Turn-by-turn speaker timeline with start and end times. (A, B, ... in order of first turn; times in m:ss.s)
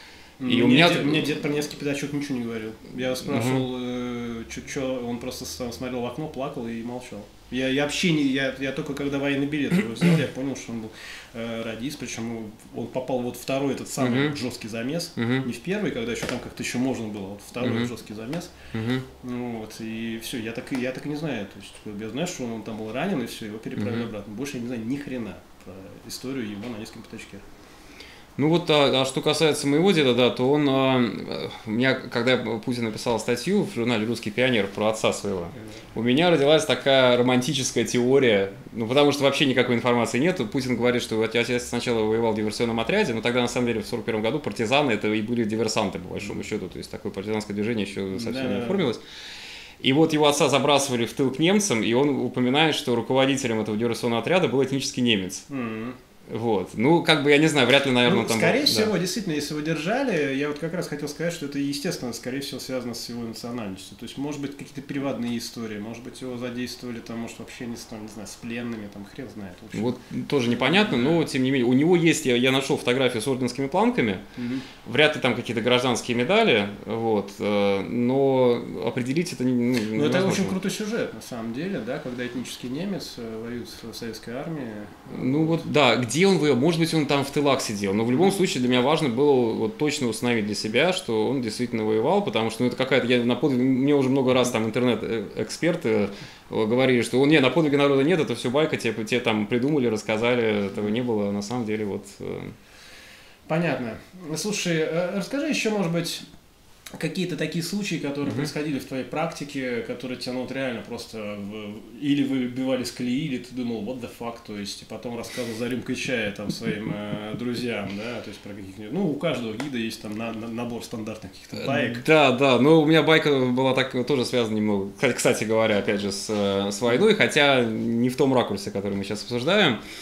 0:00.4-0:18.5 A
0:00.4-0:01.3 B
0:03.2-0:03.6 B
0:14.0-0:14.4 B
0:15.2-0:15.4 B
0:17.6-0:17.9 B
0:18.7-0:19.0 B
0:19.2-0:27.4 A
0:23.8-0:24.1 B
0:28.4-0:49.0 B
0:48.1-0:48.9 A
0:49.8-0:55.4 B
0:55.5-0:56.0 A
0:56.3-0:58.9 B
0:58.0-1:11.2 A
1:09.7-1:14.2 B
1:14.4-1:14.7 A
1:14.8-1:20.5 B
1:19.9-1:25.6 A
1:25.1-1:42.5 B
1:43.5-1:46.2 A
1:47.0-2:02.0 A
2:01.6-2:09.8 B